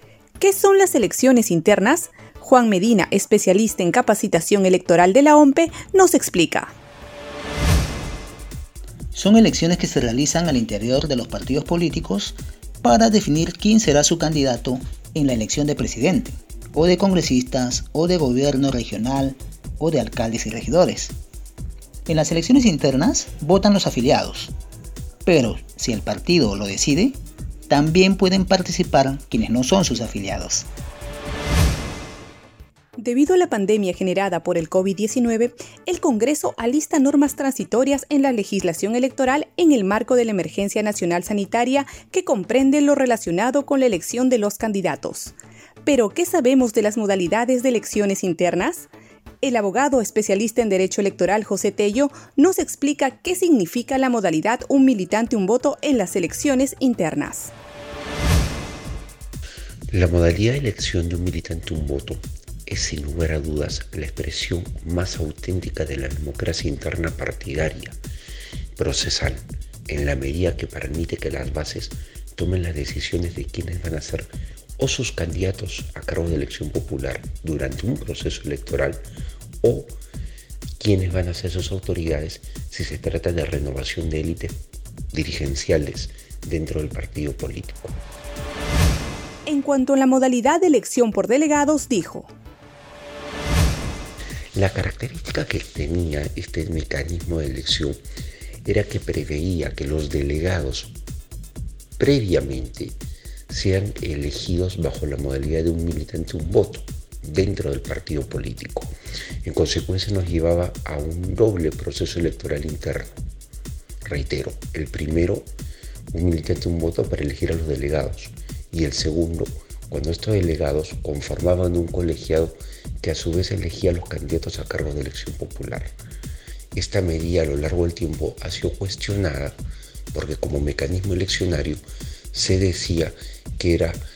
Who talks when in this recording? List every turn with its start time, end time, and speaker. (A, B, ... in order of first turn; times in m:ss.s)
0:00.4-0:06.7 A
0:09.1-0:21.2 B
0:22.1-0:24.5 B
0:25.2-0:27.2 B
0:27.7-0:30.7 B
0:33.0-0:48.9 A
0:49.4-0:57.5 A
0:59.9-1:08.0 C
1:08.7-1:19.0 C
1:19.6-1:19.9 C
1:20.8-1:24.6 C
1:25.1-1:28.0 C
1:29.5-1:32.3 A
1:34.5-1:38.0 C
1:38.6-1:40.9 C
1:42.0-1:43.0 C
1:43.5-1:48.9 C
1:49.4-1:53.1 C
1:54.0-1:55.5 C
1:56.1-2:05.9 C
2:06.7-2:09.6 C
2:10.1-2:11.8 C
2:12.3-2:14.0 C